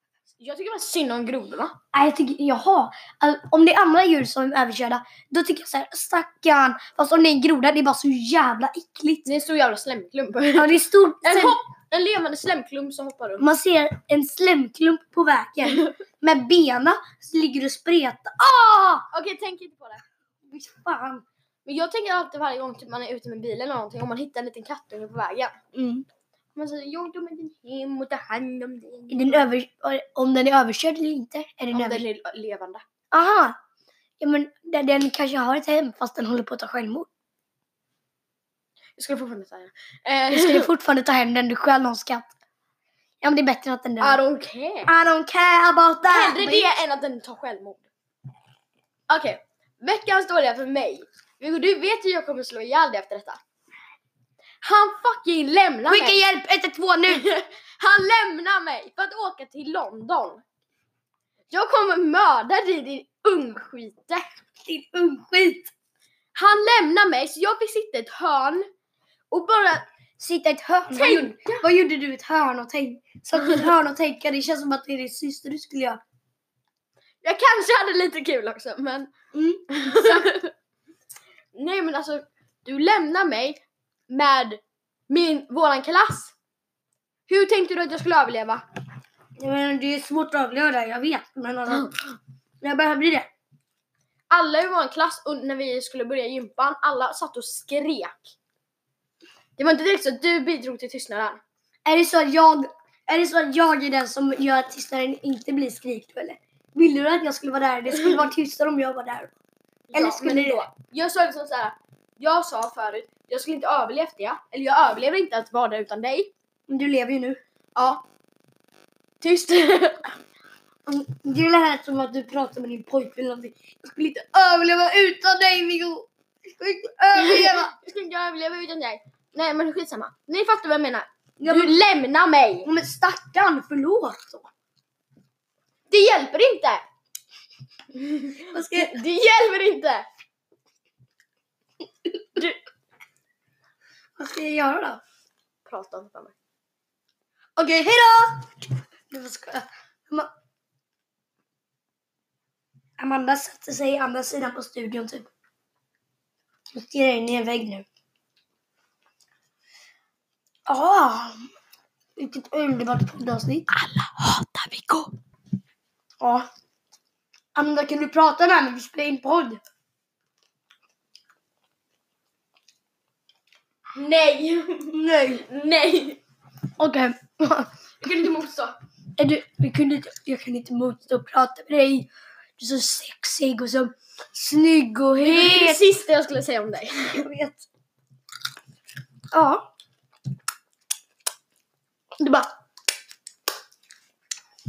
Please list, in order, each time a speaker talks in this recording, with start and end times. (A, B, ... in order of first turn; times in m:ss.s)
0:00.4-0:01.8 A
0:01.9-0:09.3 B
0:09.2-0:13.4 A
0:10.6-0:11.6 B
0:13.4-0:19.1 B
0:19.1-0:20.0 A
0:20.5-0:21.2 B
0:21.6-0:25.5 A
0:25.7-0:26.0 B
0:26.5-0:29.4 A
0:29.1-0:32.0 B
0:31.7-0:32.8 A
0:33.1-0:33.6 B
0:34.2-0:37.1 B
0:39.0-0:40.7 A
0:40.3-0:42.2 B
0:43.2-0:44.2 B
0:44.0-0:44.9 A
0:44.9-0:46.7 B
0:46.1-0:47.9 A
0:49.1-0:53.4 A
0:54.6-0:56.2 A
0:55.9-0:57.3 B
0:57.1-1:00.4 A
1:01.5-1:04.3 A
1:04.6-1:05.7 B
1:06.3-1:08.6 A
1:09.3-1:09.8 A
1:10.2-1:16.0 B
1:10.9-1:11.6 A
1:17.2-1:19.1 A
1:19.3-1:20.3 B
1:19.7-1:20.5 A
1:21.5-1:26.3 A
1:27.3-1:28.6 A
1:29.4-1:32.0 B
1:32.6-1:33.3 B
1:34.3-1:38.3 A
1:39.6-1:41.4 A
1:41.8-1:49.3 B
1:49.9-1:56.3 A
1:49.9-1:50.6 B
1:56.7-1:57.4 B
1:57.8-1:58.0 A
1:59.2-2:00.1 A
2:00.9-2:07.7 B
2:07.1-2:12.7 A
2:11.4-2:11.8 B
2:12.6-2:14.5 B
2:15.9-2:16.8 A
2:17.9-2:20.1 A
2:18.5-2:19.0 B
2:24.2-2:25.0 B
2:25.6-2:26.3 A
2:27.6-2:28.5 B
2:29.1-2:30.3 B
2:33.0-2:35.3 B
2:36.7-2:37.8 B
2:40.7-2:41.5 B
2:42.2-2:43.7 B
2:43.7-2:45.1 A
2:47.6-2:49.6 B
2:53.9-2:56.2 A
2:54.9-2:55.4 B
2:56.8-2:57.7 B
2:58.0-2:58.7 A
2:59.2-3:05.9 B
3:05.2-3:07.2 A
3:07.1-3:07.6 B
3:09.3-3:09.6 B
3:12.2-3:12.4 B